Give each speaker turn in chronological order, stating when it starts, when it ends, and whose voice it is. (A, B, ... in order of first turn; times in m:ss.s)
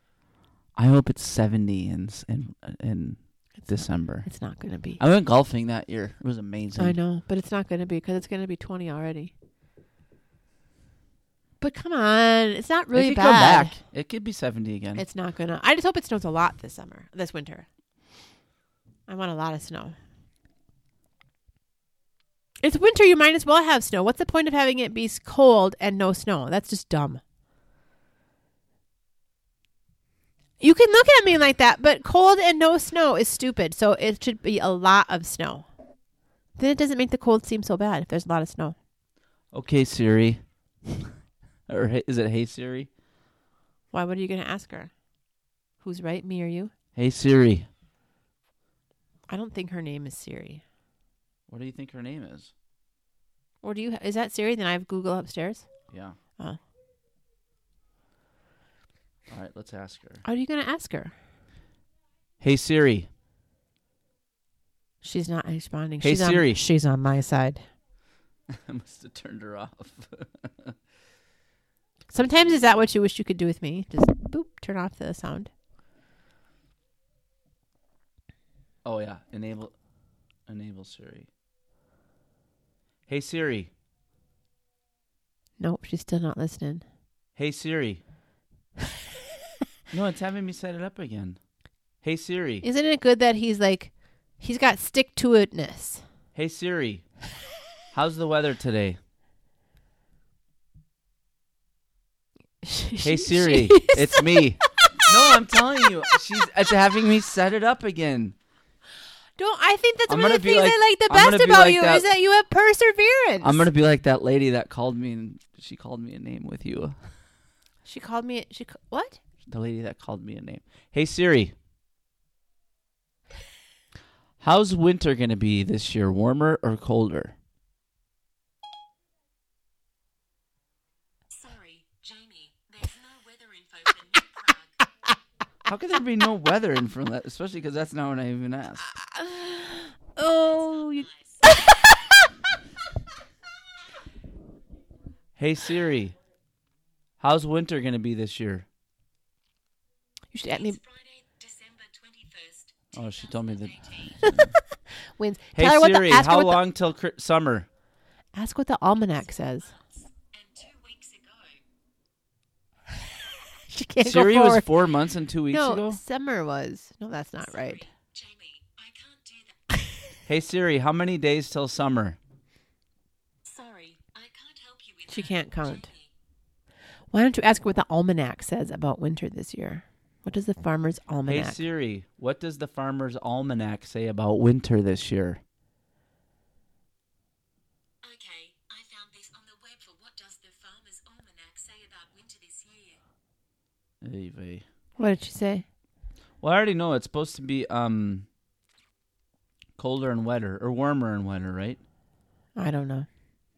0:00.8-0:04.3 A
0:04.2-0:05.0 B
0:05.0-0:07.0 A
0:06.8-0:09.3 B
0:11.6-0:13.8 B
0:12.9-0:15.0 A
0:15.0-0:17.7 B
0:19.1-0:20.0 B
0:22.6-0:27.2 B
0:30.6-0:35.7 B
0:36.6-0:38.8 B
0:39.5-0:41.1 A
0:41.7-0:42.9 A
0:43.9-0:44.9 B
0:45.8-0:46.7 B
0:47.0-0:47.7 A
0:49.3-0:50.6 B
0:51.5-0:52.5 A
0:53.6-0:55.7 B
0:55.9-0:56.2 A
0:59.3-1:00.2 A
1:00.2-1:01.1 B
1:02.4-1:03.1 A
1:05.0-1:07.6 B
1:06.0-1:06.6 A
1:08.5-1:10.8 A
1:12.1-1:15.5 B
1:18.8-1:19.7 A
1:20.5-1:21.3 A
1:23.1-1:23.7 A
1:25.6-1:26.8 B
1:27.4-1:28.0 A
1:29.9-1:31.4 A
1:32.0-1:32.6 A
1:32.6-1:36.0 B
1:36.4-1:37.0 A
1:37.9-1:39.0 A
1:42.6-1:45.8 B
1:43.0-1:48.4 A
1:49.4-1:53.7 B
1:50.1-1:52.0 A
1:53.4-1:57.0 A
1:57.8-1:59.2 B
1:59.5-2:01.5 A
2:04.4-2:07.4 A
2:11.3-2:14.9 C
2:15.7-2:18.8 A
2:18.9-2:22.3 B
2:20.2-2:21.6 C
2:25.4-2:26.2 A
2:27.2-2:28.7 A
2:30.3-2:30.8 B
2:30.4-2:34.4 C
2:33.0-2:34.5 A
2:34.2-2:34.6 B
2:35.2-2:36.6 B
2:35.6-2:37.7 A
2:38.4-2:39.7 B
2:39.6-2:41.6 C
2:43.5-2:44.7 B
2:44.0-2:46.0 A
2:45.5-2:47.9 B
2:47.4-2:50.1 C
2:50.3-2:52.2 A
2:53.4-2:56.1 C
2:55.1-2:55.9 B
2:57.1-3:01.6 B
3:01.3-3:05.4 A
3:08.0-3:13.0 C
3:14.0-3:14.6 A
3:15.0-3:15.6 B
3:16.4-3:18.3 A
3:19.8-3:21.8 A
3:22.6-3:23.1 B